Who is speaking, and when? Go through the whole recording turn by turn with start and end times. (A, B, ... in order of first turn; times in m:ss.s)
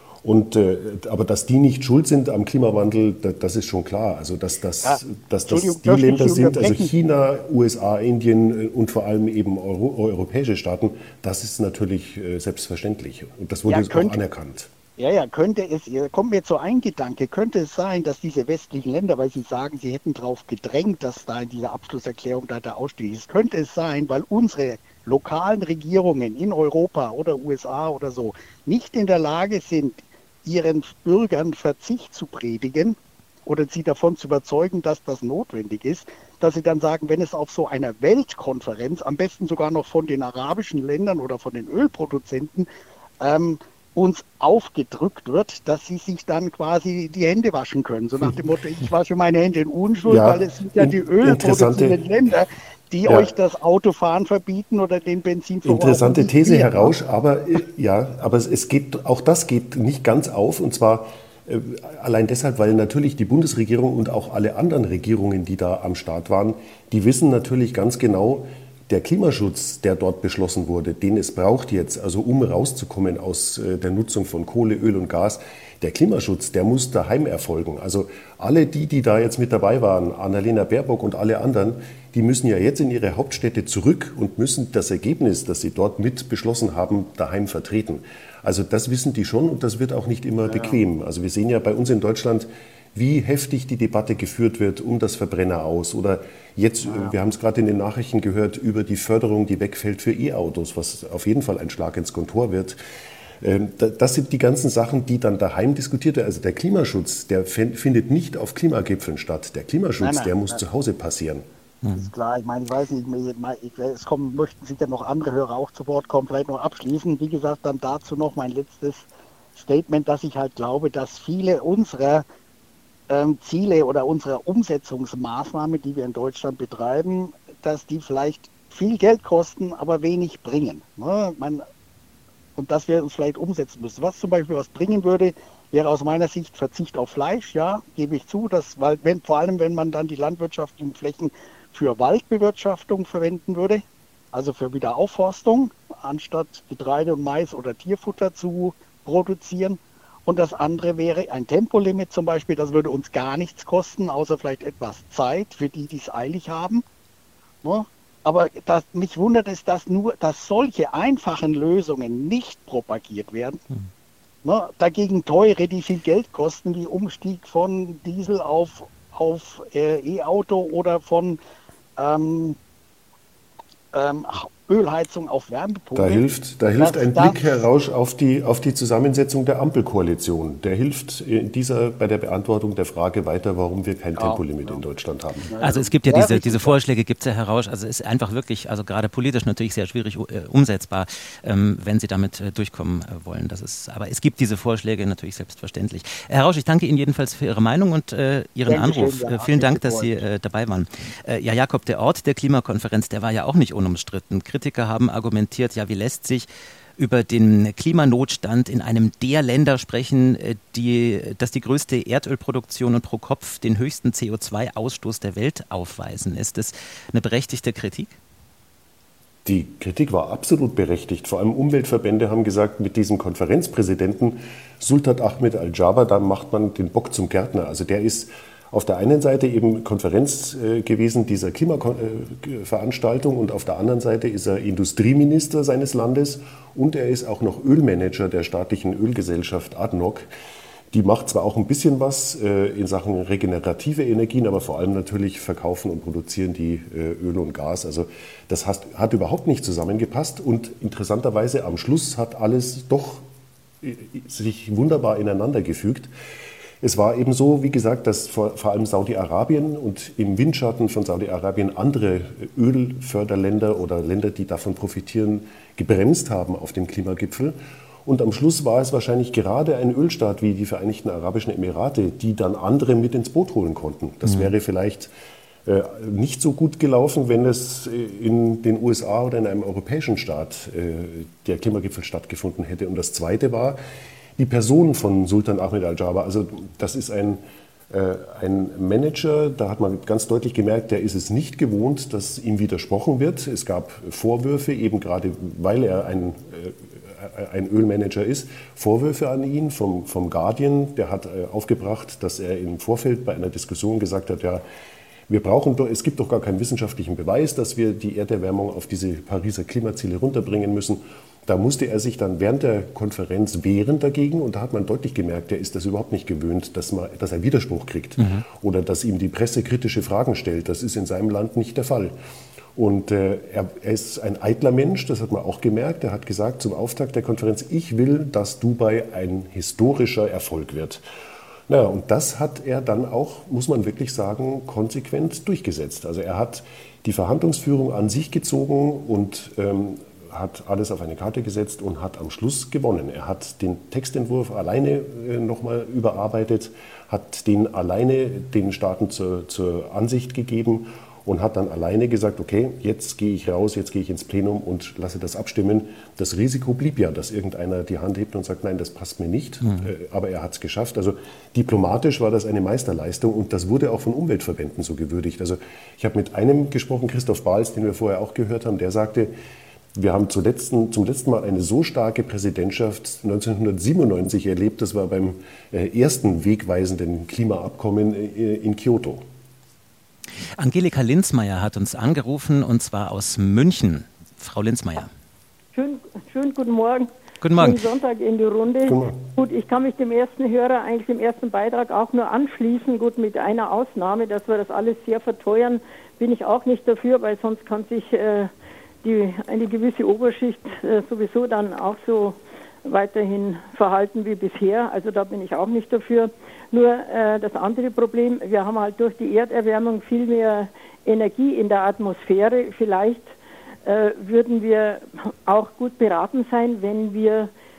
0:00.2-0:14.7 A
0:04.8-0:06.9 B
0:13.7-0:14.2 B
0:15.0-0:42.7 B
0:43.2-0:57.0 B
0:50.1-0:52.0 A
0:53.1-0:53.3 A
0:55.6-1:42.8 A
1:30.5-1:30.8 B
1:36.9-1:37.2 B
1:43.4-1:51.4 A
1:50.0-1:50.6 B
1:51.8-1:52.1 C
1:52.0-2:02.2 B
2:03.1-2:11.6 B
2:12.6-2:36.8 B
2:37.6-2:43.6 B
2:44.4-2:51.4 B
2:52.0-2:52.6 B
2:53.9-2:56.2 B
2:56.0-3:05.5 A
2:56.8-2:57.6 B
3:04.2-3:04.8 B
3:05.5-3:06.8 B
3:05.6-3:38.2 C
3:18.7-3:20.2 B
3:39.4-4:00.3 A
4:00.9-4:13.3 A
4:13.8-4:16.1 A
4:16.8-4:35.1 A
4:35.6-4:43.8 A
4:44.4-5:04.6 A
5:05.3-5:22.2 A
5:18.2-5:18.4 C
5:22.8-5:31.0 A
5:31.7-6:09.3 A
5:59.6-5:59.9 C
6:10.0-6:19.2 A
6:20.6-6:25.1 C
6:25.7-6:38.5 D
6:27.4-6:27.8 C
6:28.9-6:29.2 A
6:39.0-6:53.3 D
6:53.8-6:57.5 D